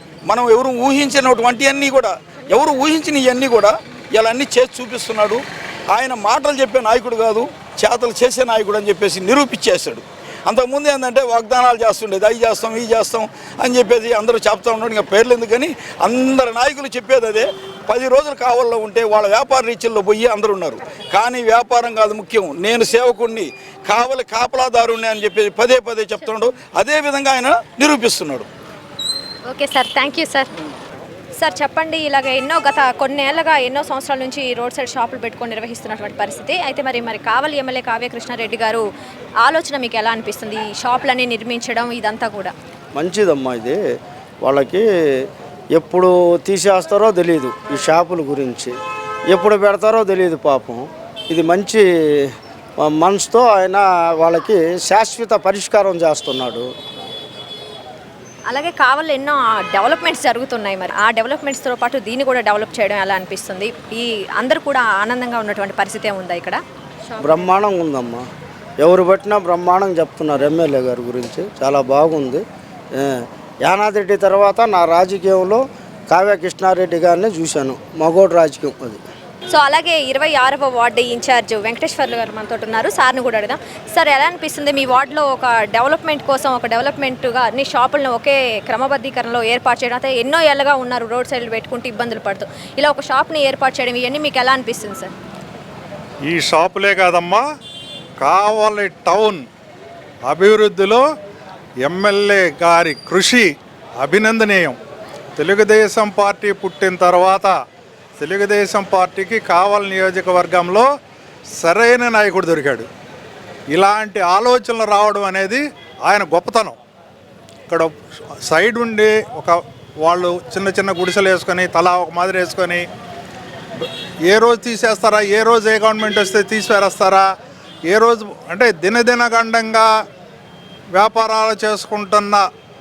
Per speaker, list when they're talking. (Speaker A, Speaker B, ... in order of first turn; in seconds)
Speaker A: 0.3-28.5
Speaker B: 29.5-30.5, 31.4-38.8, 39.4-42.5, 58.5-66.6, 79.5-95.1
Speaker C: 43.0-43.8, 44.4-44.9, 45.7-48.8, 49.3-51.9, 52.8-56.7, 67.2-68.3, 68.8-72.4, 73.0-79.0
Speaker D: 96.3-97.4, 98.2-99.5, 100.3-101.0, 101.8-103.5, 104.0-104.8, 105.4-107.5, 108.2-110.9, 111.6-112.9, 113.7-116.8, 118.5-122.8, 124.3-127.3, 127.9-129.9, 130.9-132.4